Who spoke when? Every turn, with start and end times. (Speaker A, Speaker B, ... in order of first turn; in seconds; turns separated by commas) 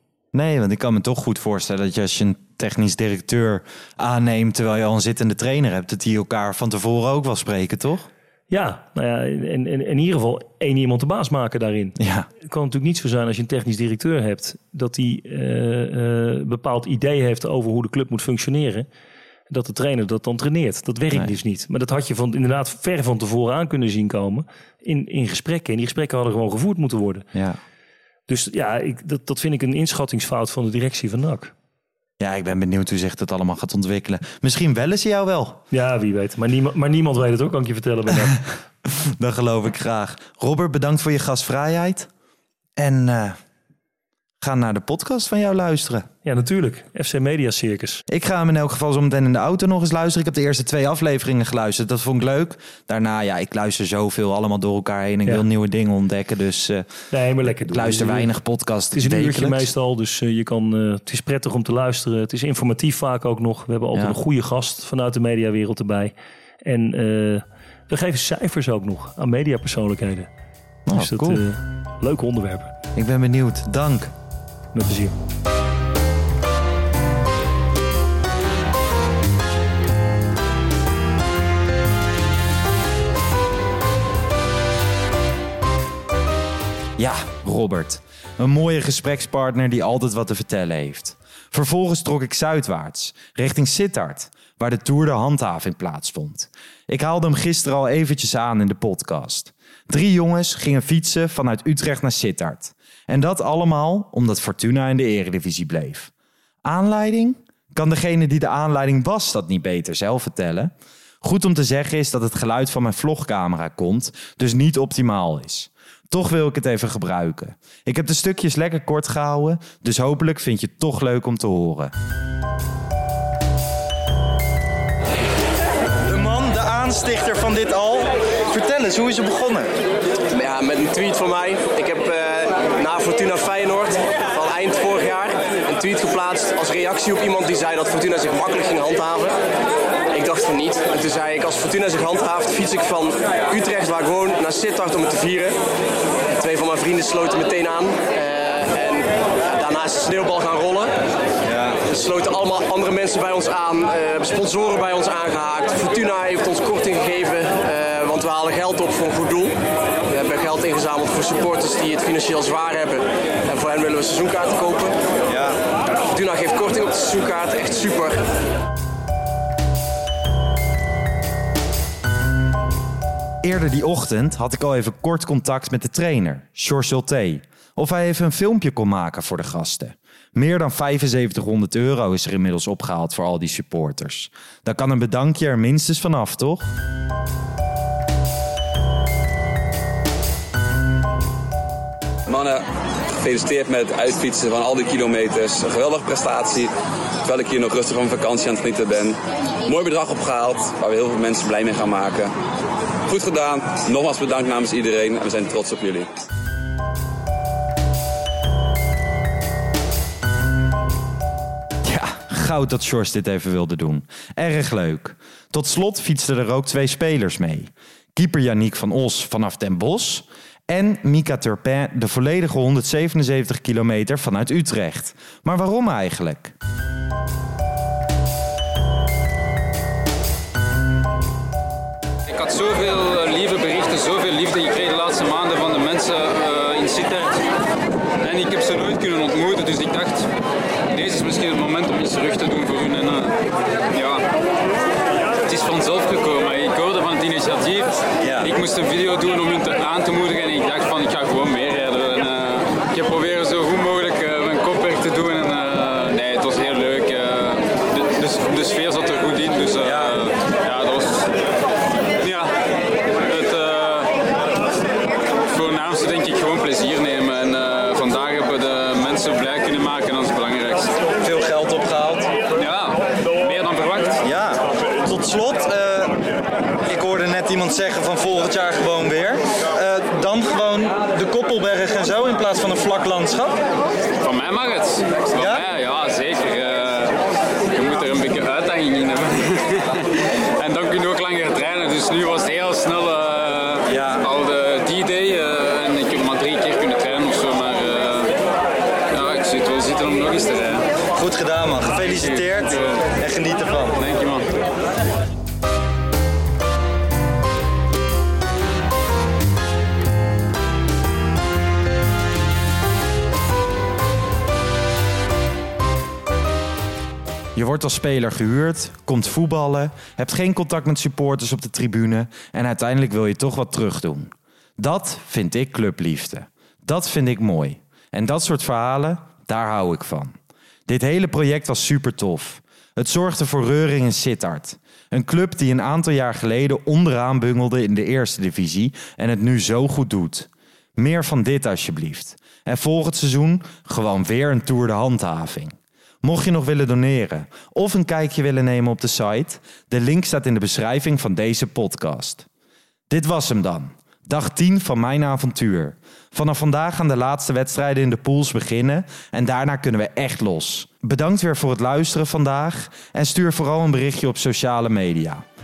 Speaker A: 0.3-8.1, Speaker B: 8.5-18.9, Speaker A: 12.0-12.3, Speaker B: 19.5-27.3, Speaker A: 27.3-27.6, Speaker B: 28.3-31.5, Speaker A: 32.2-35.6, Speaker B: 35.7-38.5, Speaker A: 38.9-42.1, Speaker A: 42.8-43.4, Speaker A: 44.4-46.0, Speaker B: 46.2-48.0, Speaker A: 48.1-56.9, Speaker B: 57.1-58.3, Speaker A: 57.5-59.7, Speaker B: 58.9-70.3, Speaker A: 70.8-71.4, Speaker B: 70.9-72.7, Speaker A: 73.0-74.1, Speaker B: 74.7-75.1, Speaker A: 87.0-106.1, Speaker A: 106.6-121.9, Speaker A: 126.0-129.7, Speaker C: 130.3-139.3, Speaker C: 140.1-145.6, Speaker C: 146.3-150.9, Speaker A: 151.5-151.8, Speaker C: 151.8-165.0, Speaker C: 166.1-168.2, Speaker A: 173.4-186.7, Speaker D: 192.2-192.6, Speaker D: 193.2-196.7, Speaker D: 197.2-202.3, Speaker D: 203.1-206.1, Speaker A: 211.8-226.5, Speaker E: 232.3-237.4, Speaker E: 238.2-240.3, Speaker E: 240.9-243.3, Speaker E: 243.9-244.2, Speaker E: 245.4-261.3, Speaker A: 248.2-248.5, Speaker E: 262.2-262.5, Speaker E: 263.2-264.1, Speaker E: 265.5-270.9, Speaker A: 271.2-272.3, Speaker E: 272.5-274.2, Speaker A: 274.2-276.2, Speaker A: 276.8-283.6, Speaker E: 284.2-287.1, Speaker E: 287.7-298.3, Speaker A: 293.9-294.3, Speaker E: 299.1-300.9, Speaker A: 301.1-304.0, Speaker E: 302.0-303.0, Speaker E: 304.0-304.5, Speaker A: 317.6-330.3, Speaker A: 330.9-352.4, Speaker A: 353.1-365.4